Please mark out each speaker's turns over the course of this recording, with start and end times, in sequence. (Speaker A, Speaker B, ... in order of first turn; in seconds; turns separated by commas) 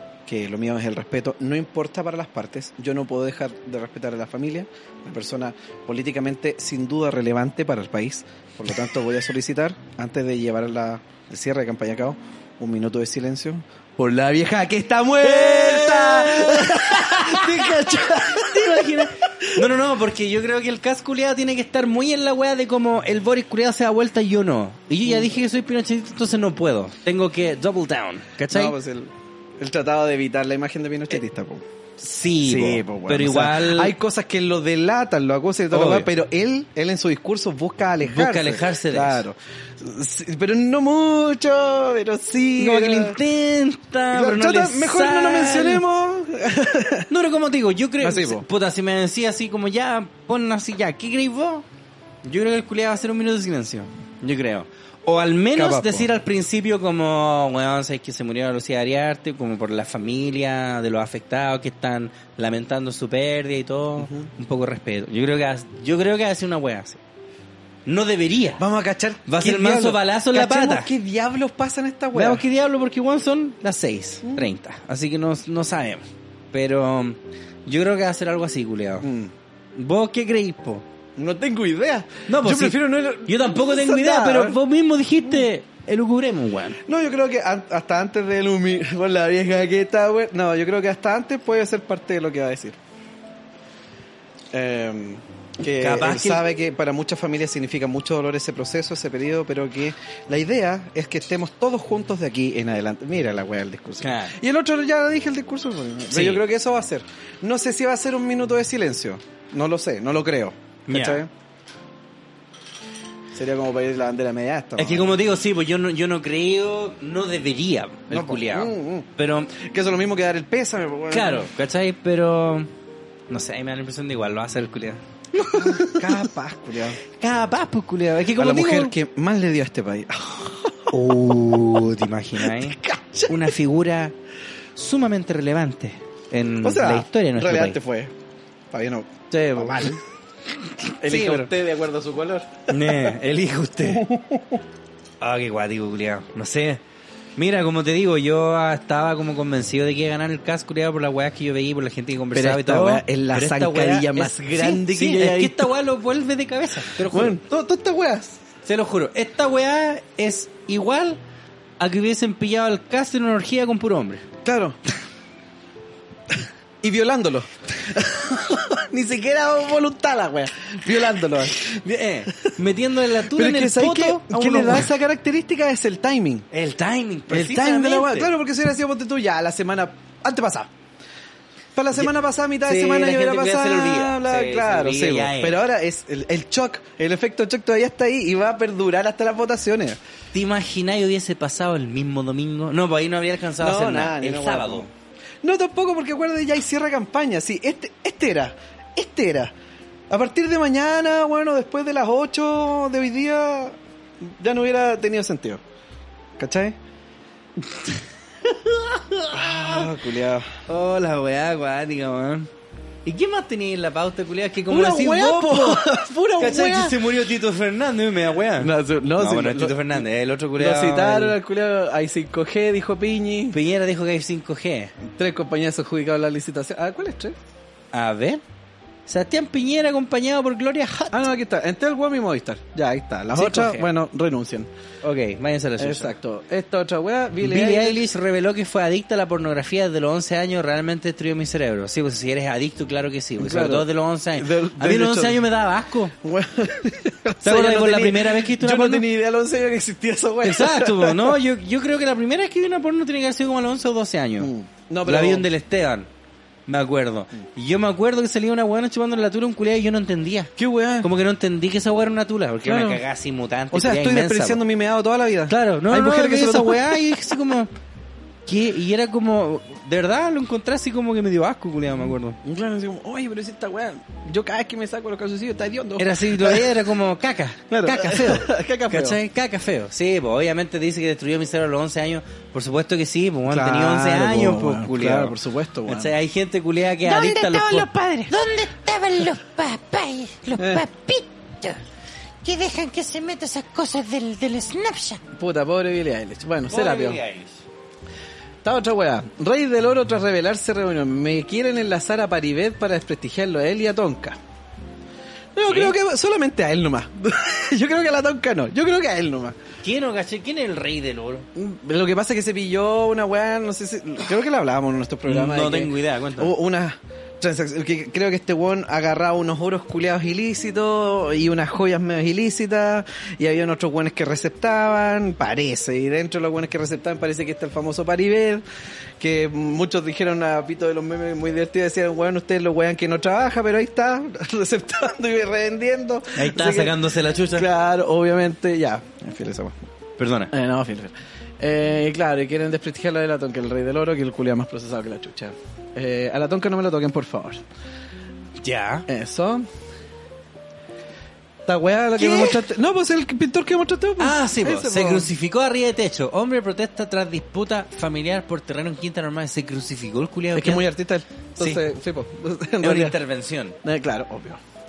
Speaker A: 0.2-19.6, Speaker B: 15.2-28.7, Speaker A: 28.5-31.6, Speaker B: 32.0-33.9, Speaker A: 32.4-43.2, Speaker B: 35.7-36.1, Speaker B: 38.0-39.2, Speaker B: 42.6-45.8, Speaker A: 44.1-47.1, Speaker B: 47.1-51.6, Speaker A: 48.0-48.4, Speaker B: 52.2-67.0, Speaker A: 55.5-56.1, Speaker A: 64.0-64.3, Speaker B: 67.8-68.6, Speaker A: 68.6-72.4, Speaker B: 69.2-70.9, Speaker B: 72.1-79.1, Speaker A: 79.0-79.3, Speaker B: 79.7-80.8, Speaker A: 81.2-84.6, Speaker B: 82.3-86.8, Speaker A: 86.8-92.8, Speaker A: 94.5-111.3, Speaker B: 95.8-96.4, Speaker B: 104.0-104.3, Speaker B: 106.1-106.4, Speaker B: 110.9-111.2, Speaker A: 113.3-115.2, Speaker B: 114.8-119.5, Speaker A: 118.1-121.5, Speaker B: 121.1-122.7, Speaker B: 123.3-126.3, Speaker A: 125.5-127.0, Speaker B: 127.2-128.9, Speaker A: 128.3-131.1, Speaker B: 130.9-134.1, Speaker A: 132.4-133.5, Speaker B: 134.7-137.8, Speaker A: 136.6-138.1, Speaker A: 138.7-140.0, Speaker B: 139.3-140.0, Speaker B: 140.9-141.5, Speaker A: 141.0-143.1, Speaker B: 142.7-144.1, Speaker A: 143.8-144.6, Speaker B: 145.2-146.8, Speaker B: 147.4-157.4, Speaker A: 152.3-155.7, Speaker A: 157.0-158.4, Speaker B: 158.6-161.2, Speaker B: 161.8-164.2, Speaker A: 164.4-164.8, Speaker A: 166.8-171.7, Speaker B: 171.6-174.9, Speaker A: 173.3-176.5, Speaker B: 176.5-178.3, Speaker A: 177.3-180.7, Speaker A: 181.7-190.0, Speaker B: 182.6-185.6, Speaker B: 190.3-194.9, Speaker A: 193.6-194.9, Speaker A: 195.4-199.5, Speaker A: 200.1-205.6, Speaker A: 206.4-206.8, Speaker B: 208.4-209.9, Speaker A: 209.3-210.5, Speaker B: 210.7-212.5, Speaker B: 213.0-221.4, Speaker A: 214.7-217.0, Speaker A: 218.6-223.6, Speaker B: 223.5-224.9, Speaker A: 225.1-227.4, Speaker B: 227.9-228.4, Speaker B: 229.1-231.3, Speaker A: 231.1-234.7, Speaker B: 233.3-233.9, Speaker B: 235.0-236.2, Speaker A: 235.8-238.0, Speaker B: 237.4-246.1, Speaker A: 243.4-245.4, Speaker A: 246.2-251.3, Speaker B: 247.4-249.0, Speaker B: 250.4-254.5, Speaker A: 254.4-255.4, Speaker B: 255.0-256.1, Speaker B: 256.7-260.5, Speaker A: 260.6-261.1, Speaker B: 261.0-264.6, Speaker A: 262.6-263.0, Speaker A: 263.7-267.0, Speaker B: 265.5-267.7, Speaker B: 268.4-272.4, Speaker A: 272.4-276.7, Speaker B: 276.0-285.3, Speaker A: 277.7-279.2, Speaker A: 283.5-286.1, Speaker B: 285.9-287.9, Speaker C: 287.0-291.8, Speaker A: 290.6-290.8, Speaker C: 292.4-295.2, Speaker A: 295.4-297.2, Speaker B: 296.7-297.6, Speaker A: 298.6-304.4, Speaker A: 305.5-309.6, Speaker B: 305.7-305.9, Speaker B: 309.8-311.5, Speaker A: 311.5-328.6, Speaker B: 315.2-316.5, Speaker A: 329.2-339.9, Speaker B: 336.3-337.7, Speaker B: 340.2-340.5, Speaker A: 340.5-347.6, Speaker B: 348.6-349.1, Speaker A: 349.1-349.7, Speaker A: 351.6-355.3, Speaker B: 352.2-352.6, Speaker B: 354.2-360.9, Speaker A: 360.5-363.1, Speaker B: 362.8-363.8, Speaker A: 363.8-364.6